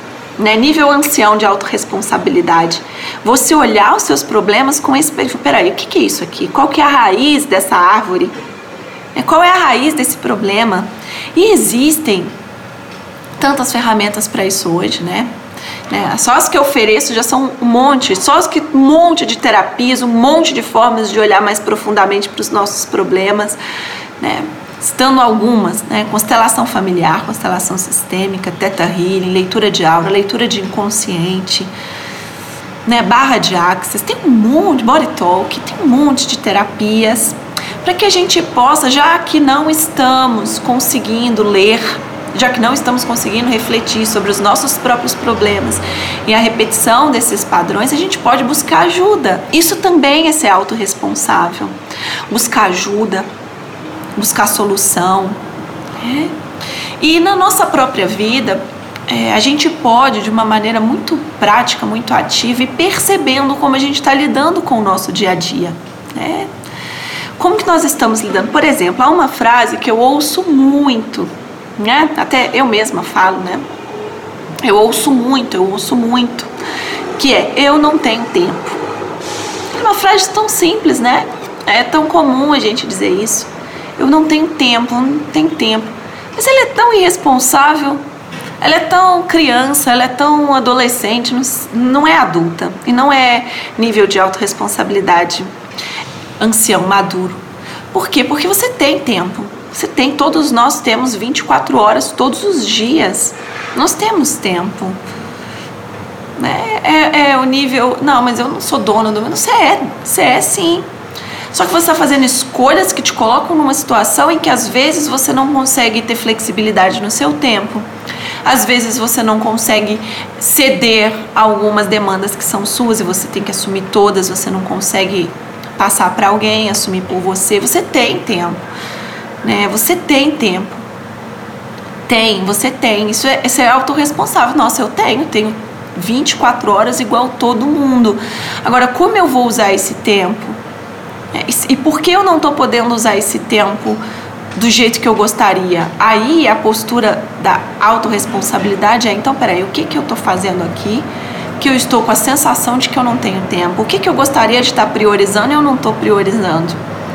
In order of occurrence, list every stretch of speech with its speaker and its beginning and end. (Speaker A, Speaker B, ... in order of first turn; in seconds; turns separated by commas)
Speaker A: 0.4-8.3, Speaker A: 9.1-12.3, Speaker A: 13.4-15.3, Speaker A: 15.9-23.6, Speaker A: 24.2-31.7, Speaker A: 32.9-51.8, Speaker A: 52.3-53.3, Speaker A: 54.2-55.4, Speaker A: 56.0-56.4, Speaker A: 57.0-66.5, Speaker A: 67.4-73.6, Speaker A: 74.6-76.5, Speaker A: 77.2-78.8, Speaker A: 79.7-88.0, Speaker A: 88.6-95.5, Speaker A: 96.4-97.4, Speaker A: 97.9-105.0, Speaker A: 106.4-110.9, Speaker A: 111.5-117.9, Speaker A: 118.4-128.6, Speaker A: 129.4-130.8, Speaker A: 132.1-140.6, Speaker A: 141.3-144.0, Speaker A: 144.6-156.8